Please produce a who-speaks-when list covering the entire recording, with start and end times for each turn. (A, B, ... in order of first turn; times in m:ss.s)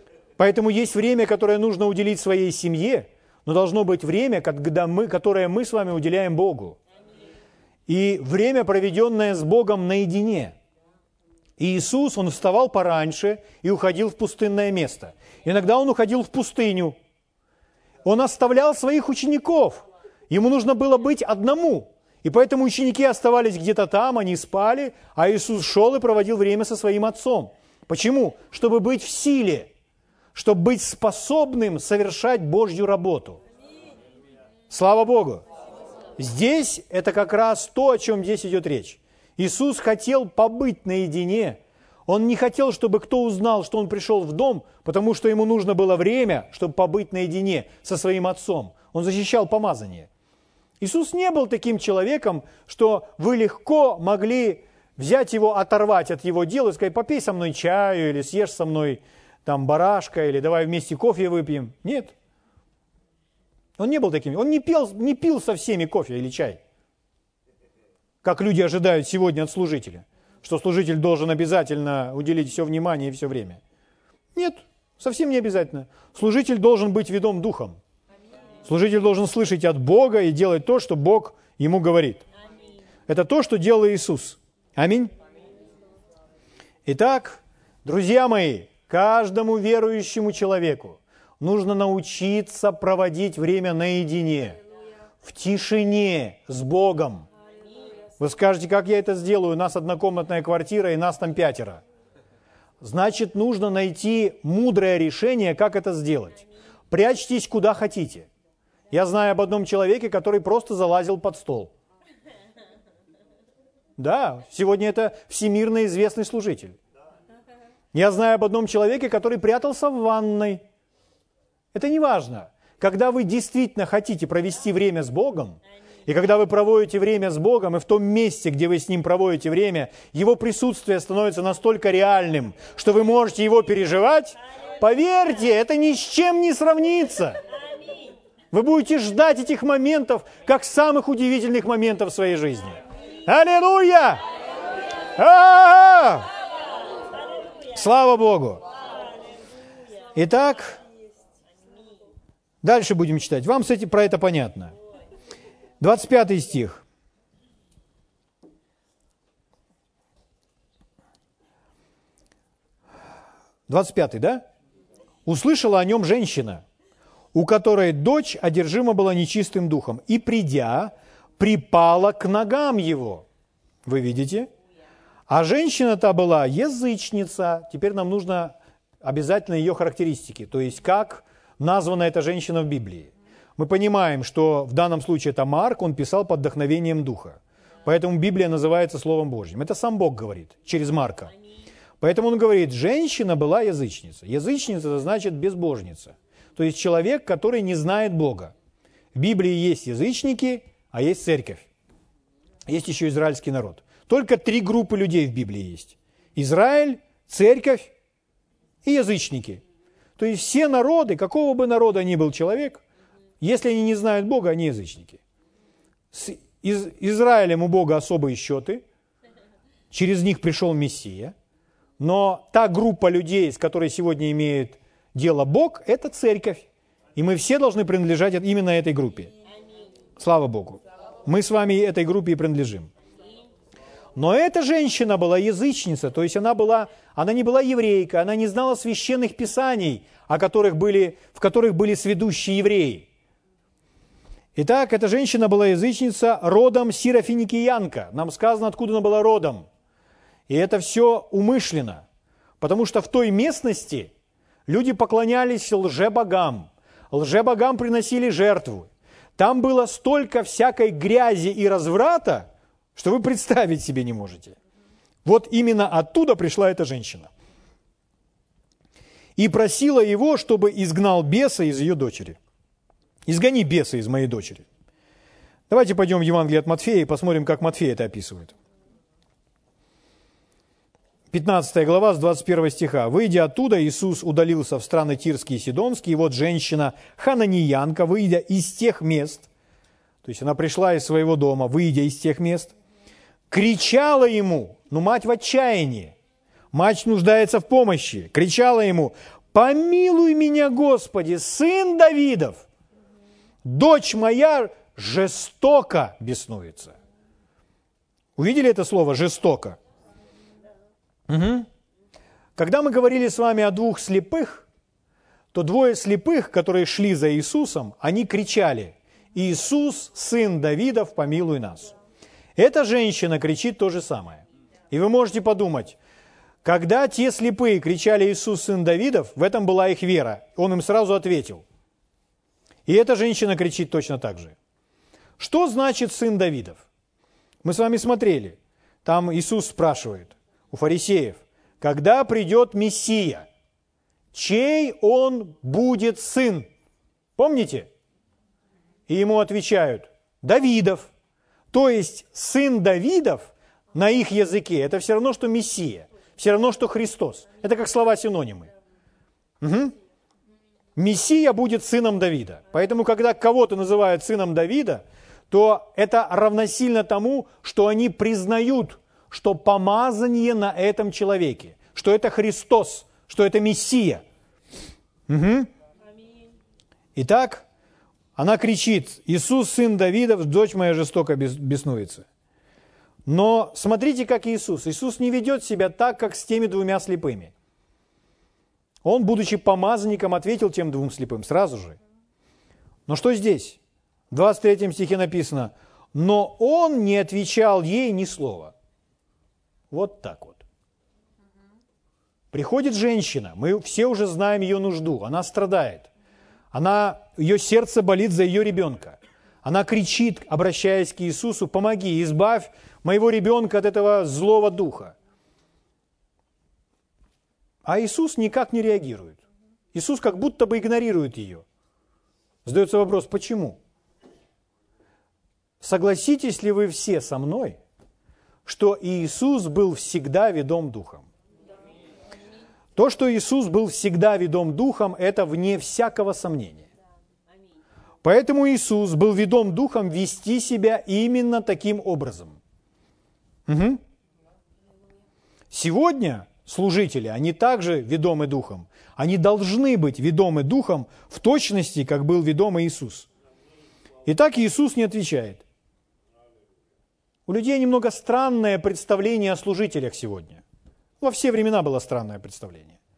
0:00.4-0:06.8 A
0:07.9-0:10.6 A
0:11.6-0:17.0 A
0:18.0-0:29.7 A
0:30.3-0:33.4 A
0:34.7-0:35.4 A
0:36.2-0:50.1 A
0:50.8-1:02.1 A
1:03.8-1:06.6 A
1:08.2-1:13.6 A
1:14.4-1:17.8 A
1:18.6-1:22.3 A
1:23.1-1:25.1 A
1:26.9-1:34.6 A
1:35.2-1:37.3 A
1:38.2-1:41.8 A
1:42.8-1:48.3 A
1:48.9-1:51.7 A
1:54.0-1:56.8 A
1:57.9-2:00.6 A
2:01.7-2:17.4 A
2:18.5-2:24.2 A
2:25.1-2:26.3 A
2:27.7-2:28.6 A
2:30.2-2:30.8 A
2:32.6-2:34.7 A
2:35.8-2:36.8 A
2:43.7-2:44.4 A
2:45.3-2:46.6 A
2:47.3-2:53.3 A
2:53.9-2:54.5 A
2:55.3-3:11.3 A
3:12.0-3:18.5 A
3:19.1-3:21.7 A
3:22.7-3:27.9 A
3:28.8-3:29.6 A
3:30.2-3:32.8 A
3:33.4-3:35.2 A
3:36.1-3:38.8 A
3:39.9-3:41.3 A
3:42.0-3:49.3 A
3:50.2-3:52.9 A
3:54.2-4:03.1 A
4:04.6-4:09.7 A
4:10.5-4:12.0 A
4:12.6-4:14.1 A
4:14.7-4:24.6 A
4:25.2-4:27.3 A
4:29.4-4:32.4 A
4:33.3-4:34.6 A
4:35.7-4:38.6 A
4:41.3-4:49.5 A
4:50.2-4:52.8 A
4:53.5-4:56.2 A
4:56.7-5:02.7 A
5:03.6-5:07.0 A
5:08.4-5:09.8 A
5:11.3-5:11.7 A
5:12.6-5:14.7 A
5:15.5-5:22.0 A
5:22.6-5:26.0 A
5:26.6-5:31.6 A
5:32.9-5:34.6 A
5:35.4-5:36.8 A
5:37.6-5:43.5 A
5:44.3-5:46.7 A
5:47.4-5:47.9 A
5:49.1-5:51.1 A
5:51.7-5:58.7 A
5:59.6-6:00.0 A
6:01.0-6:14.2 A
6:15.3-6:15.7 A
6:17.2-6:17.7 A
6:18.4-6:22.3 A
6:23.3-6:27.5 A
6:29.0-6:32.0 A
6:33.1-6:33.8 A
6:34.3-6:38.7 A
6:39.9-6:40.6 A
6:42.5-6:46.1 A
6:46.7-6:55.2 A
6:57.8-6:59.4 A
6:59.9-7:01.6 A
7:02.6-7:03.8 A
7:05.8-7:07.8 A
7:08.6-7:11.3 A
7:13.0-7:16.9 A
7:18.2-7:22.6 A
7:23.7-7:24.0 A
7:25.7-7:33.3 A
7:34.3-7:35.6 A
7:37.5-7:40.6 A
7:41.2-7:43.0 A